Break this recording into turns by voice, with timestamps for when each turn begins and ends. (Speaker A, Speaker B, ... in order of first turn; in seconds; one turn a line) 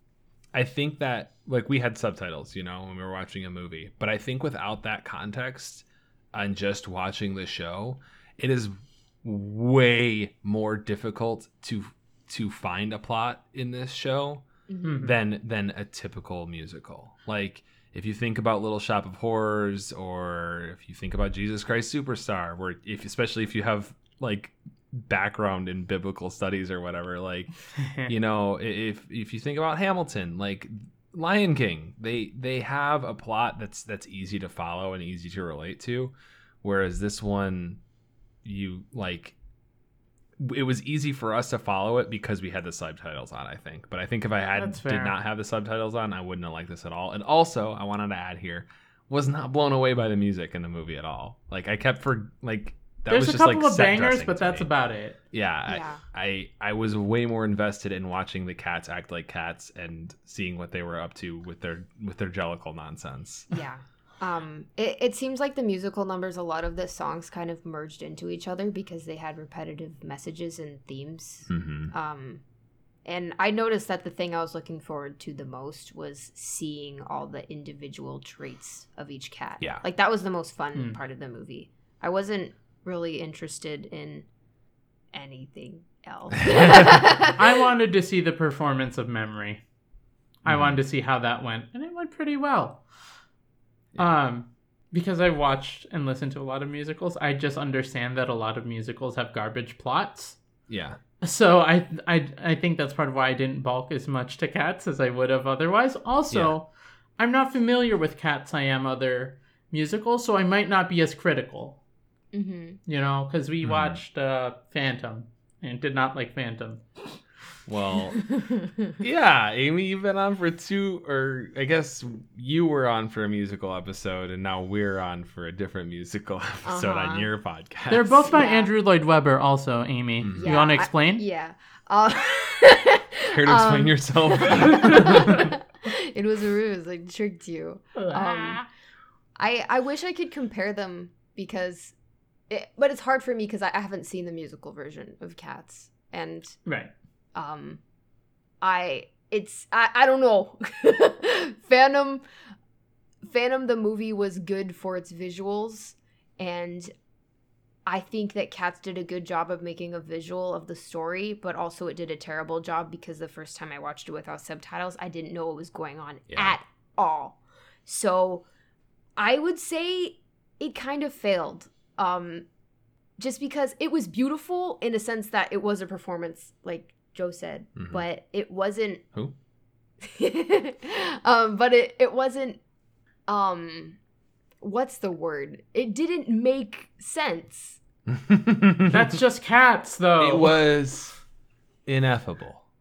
Speaker A: 0.5-14.4
Speaker B: 14.7-15.1
Speaker C: 14.8-15.1
Speaker A: 15.0-27.5
Speaker C: 27.8-28.1
Speaker A: 28.1-37.8
Speaker A: 38.4-39.4
Speaker A: 40.4-54.7
Speaker C: 44.5-45.1
Speaker C: 53.1-55.2
Speaker A: 55.3-63.5
Speaker B: 55.7-56.0
Speaker B: 63.5-72.4
Speaker A: 71.5-71.9
Speaker B: 73.0-84.3
Speaker B: 85.1-87.4
Speaker A: 86.5-87.0
Speaker C: 87.0-89.6
Speaker C: 90.4-92.8
Speaker A: 90.5-90.8
Speaker C: 94.0-100.4
Speaker A: 100.7-101.0
Speaker C: 101.2-111.8
Speaker B: 112.3-112.8
Speaker C: 112.9-116.8
Speaker A: 113.6-114.0
Speaker A: 117.7-118.2
Speaker A: 119.0-128.3
Speaker B: 126.7-127.3
Speaker C: 127.9-131.2
Speaker B: 128.2-128.7
Speaker A: 130.2-130.6
Speaker B: 130.4-138.6
Speaker A: 133.3-135.5
Speaker C: 138.0-138.7
Speaker B: 139.4-141.9
Speaker B: 142.5-146.6
Speaker C: 146.7-146.9
Speaker B: 147.3-147.8
Speaker B: 148.6-152.2
Speaker B: 153.2-156.9
Speaker B: 157.9-168.5
Speaker A: 166.3-166.6
Speaker B: 169.2-172.4
Speaker B: 173.2-179.0
Speaker A: 177.8-178.0
Speaker B: 180.0-182.6
Speaker B: 183.3-184.0
Speaker B: 184.6-187.8
Speaker A: 188.1-189.1
Speaker C: 188.9-190.7
Speaker A: 190.2-191.2
Speaker A: 191.9-192.6